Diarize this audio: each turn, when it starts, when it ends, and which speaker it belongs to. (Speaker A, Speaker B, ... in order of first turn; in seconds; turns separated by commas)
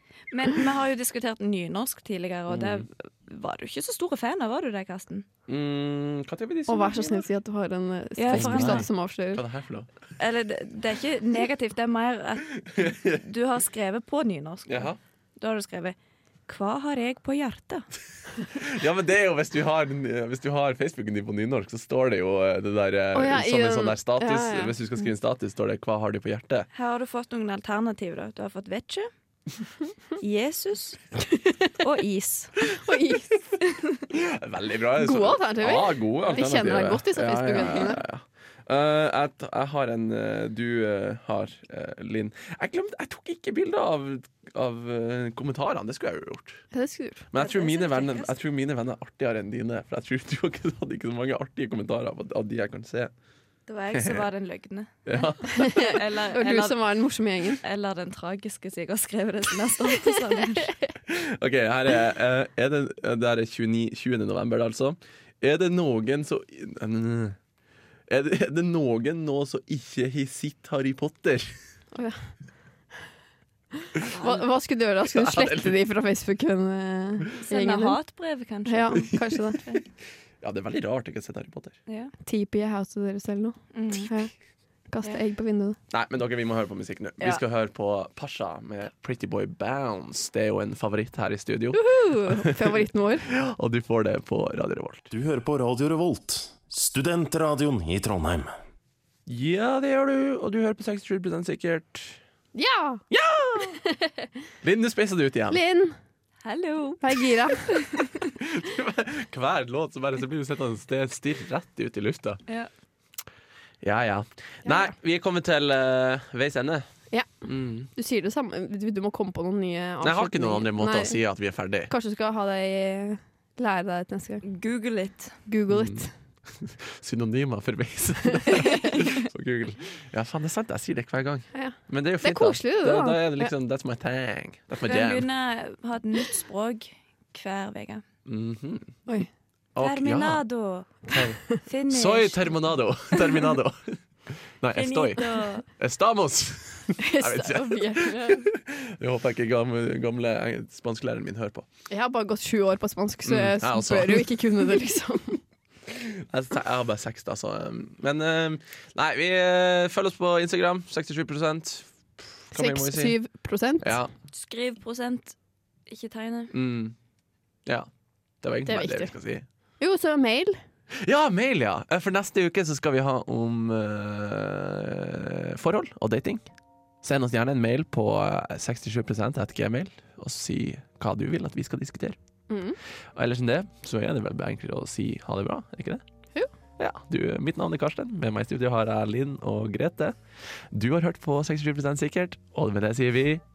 Speaker A: 0.3-5.3, Speaker B: 2.5-2.9, Speaker B: 5.5-7.2, Speaker C: 6.7-9.4, Speaker A: 8.2-8.9, Speaker B: 8.3-9.9, Speaker A: 10.2-17.9, Speaker B: 12.7-13.2, Speaker B: 14.7-15.0, Speaker B: 18.4-26.7, Speaker C: 23.1-24.8, Speaker A: 26.7-29.1, Speaker A: 30.2-31.2, Speaker A: 31.7-32.6, Speaker C: 32.7-33.4, Speaker B: 34.1-46.6, Speaker C: 35.0-38.0, Speaker C: 46.7-47.2, Speaker B: 47.3-53.1, Speaker A: 47.4-48.3, Speaker A: 53.7-56.8, Speaker B: 53.9-54.2, Speaker B: 55.0-56.0, Speaker C: 55.6-57.6, Speaker A: 57.5-60.8, Speaker B: 61.1-67.4, Speaker B: 68.1-71.5, Speaker C: 73.8-78.0, Speaker A: 74.0-74.4, Speaker B: 75.0-75.8, Speaker A: 77.4-79.8, Speaker C: 78.7-79.6, Speaker B: 78.9-79.3, Speaker B: 80.4-81.8, Speaker A: 81.9-82.1, Speaker C: 82.2-84.3, Speaker A: 83.7-84.1, Speaker C: 84.9-85.8, Speaker B: 85.9-95.1, Speaker C: 91.7-93.2, Speaker D: 95.1-98.5, Speaker B: 99.3-102.2, Speaker C: 102.5-103.0, Speaker B: 103.1-103.8, Speaker C: 103.8-104.3, Speaker B: 104.6-105.6, Speaker C: 105.5-106.0, Speaker A: 106.4-108.3, Speaker C: 107.0-107.9, Speaker B: 108.4-112.4, Speaker B: 113.8-116.9, Speaker C: 114.7-114.9, Speaker C: 117.1-121.2, Speaker B: 117.4-117.9, Speaker B: 120.0-121.9, Speaker C: 121.9-124.4, Speaker A: 124.4-125.4, Speaker C: 125.5-126.1, Speaker B: 125.7-135.3, Speaker A: 128.8-129.1, Speaker C: 131.5-133.5, Speaker A: 134.8-138.0, Speaker B: 138.2-139.0, Speaker B: 139.7-140.4, Speaker A: 139.8-142.7, Speaker B: 141.1-151.7, Speaker A: 144.7-145.7, Speaker C: 147.0-148.5, Speaker C: 151.9-155.4, Speaker B: 153.2-154.8, Speaker B: 155.9-163.2, Speaker C: 162.5-164.0, Speaker B: 163.8-164.1, Speaker A: 164.3-165.3, Speaker A: 165.9-166.5, Speaker B: 166.5-166.9, Speaker B: 168.4-169.4, Speaker C: 168.7-169.1, Speaker C: 169.8-170.6, Speaker B: 170.9-176.4, Speaker B: 177.0-182.2, Speaker C: 182.5-182.8, Speaker B: 183.2-186.0, Speaker B: 186.8-190.2, Speaker B: 190.7-193.4